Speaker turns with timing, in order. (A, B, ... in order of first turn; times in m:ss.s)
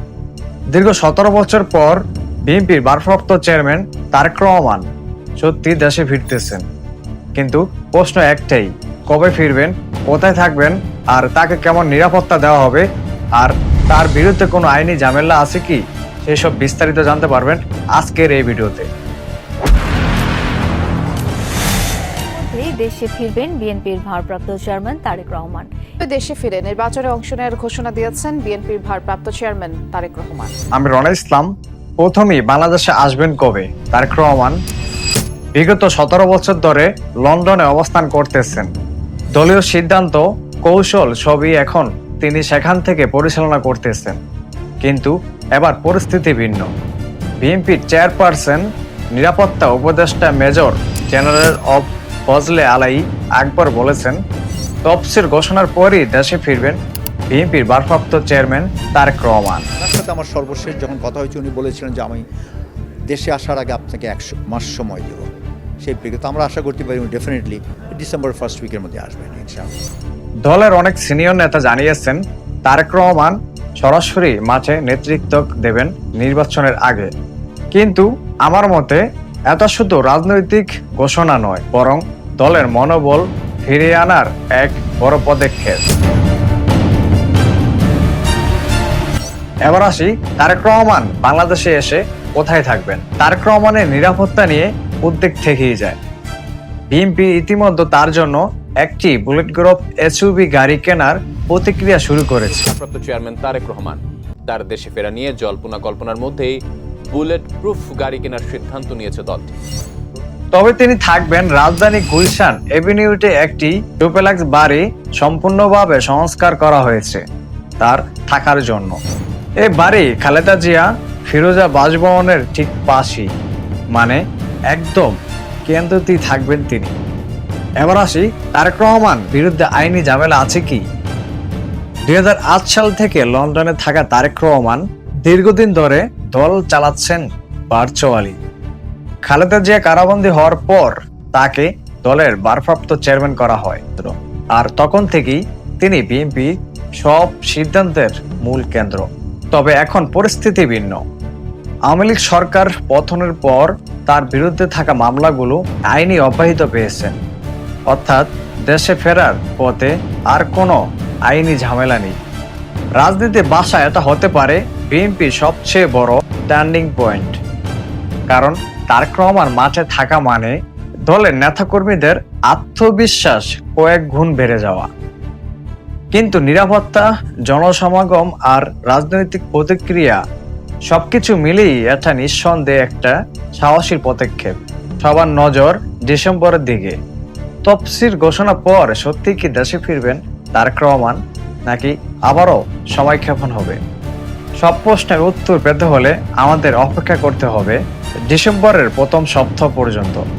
0:00.7-0:04.8 A
0:05.4-0:06.6 A
0:07.4-0:12.8 A
0:13.4-0:18.9 A
0:22.3-0:25.7 B
0:26.0-0:30.5 C
0:30.7-0:34.6 A
0:35.6-0:38.7 A
0:39.3-0:44.2 A
0:44.8-0:46.7 A
0:47.4-0:48.6 A
0:49.2-0:54.2 A
0:54.8-0:56.8 A
0:57.3-0:59.6 A
0:59.8-1:02.2 D
1:03.1-1:05.3 D
1:05.8-1:09.7 D
1:10.4-1:17.1 A
1:17.7-1:25.8 A
1:29.6-1:36.0 A
1:36.9-1:42.7 A
1:42.4-1:46.6 E
1:47.1-1:49.6 E
1:50.5-1:57.2 A
1:57.8-1:59.0 A
1:59.6-2:03.3 A
2:03.9-2:04.2 A
2:04.7-2:05.1 A
2:05.7-2:06.9 A
2:07.8-2:10.8 A
2:12.1-2:18.4 A
2:19.2-2:31.0 A
2:31.9-2:37.1 A
2:37.9-2:42.1 A
2:43.0-2:47.4 A
2:48.3-2:50.5 A
2:51.1-2:54.9 A
2:56.1-3:00.2 A
3:00.9-3:07.0 A
3:07.6-3:13.8 A
3:14.6-3:17.8 A
3:18.3-3:20.2 A